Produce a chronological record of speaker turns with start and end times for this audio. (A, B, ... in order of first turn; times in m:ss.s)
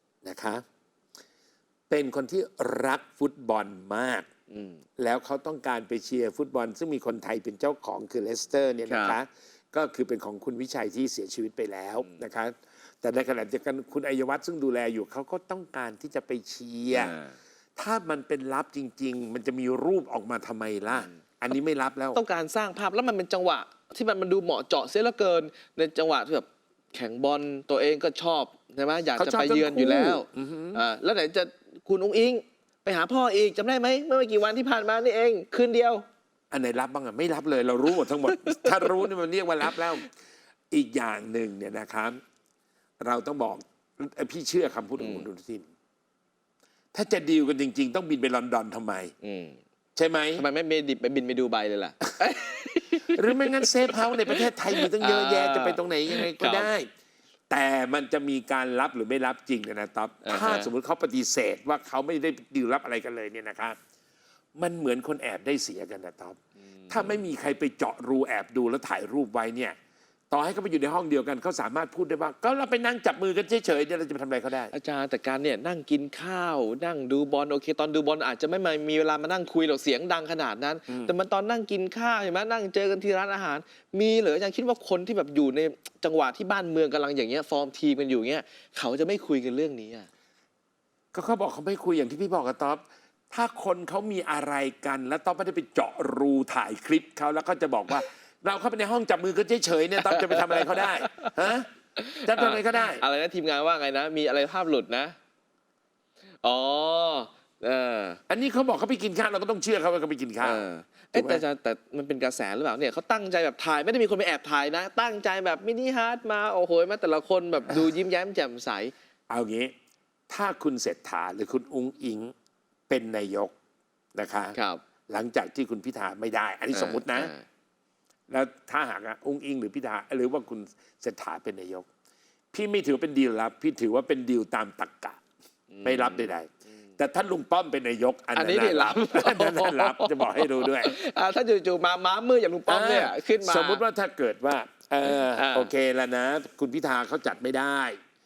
0:00.2-0:00.6 A
0:01.9-0:04.3 A
0:04.5-0:04.8 B
0:05.0-0:17.2 A
0:08.9-0:09.2 B
0:16.9-0:17.4 B
0:17.8-0:22.2 A
0:22.1-0:36.0 B
0:29.2-0:30.8 A
0:36.5-0:40.1 A
0:38.3-0:38.9 B
0:40.7-0:42.2 A
0:43.0-0:45.7 A
0:45.0-0:45.3 B
0:46.9-0:49.1 A
0:49.2-0:49.6 B
0:50.0-0:50.4 A
0:50.4-0:56.7 B
0:53.1-0:56.9 A
0:57.5-1:03.8 A
1:00.2-1:00.7 B
1:04.6-1:09.8 A
1:06.8-1:07.1 B
1:10.3-1:14.7 A
1:14.7-1:30.1 B
1:31.1-1:43.0 A
1:40.1-1:41.1 B
1:42.0-1:45.2 B
1:46.4-1:48.2 B
1:48.3-1:51.4 A
1:50.4-1:58.9 B
1:59.3-1:59.7 A
2:00.3-2:02.3 A
2:02.9-2:03.5 A
2:04.2-2:04.6 A
2:04.6-2:04.8 B
2:05.1-2:07.3 A
2:06.7-2:07.4 B
2:08.3-2:11.9 A
2:12.5-2:15.2 A
2:15.7-2:16.3 B
2:15.8-2:20.9 A
2:18.4-2:23.8 B
2:22.7-2:28.0 A
2:25.1-2:25.7 B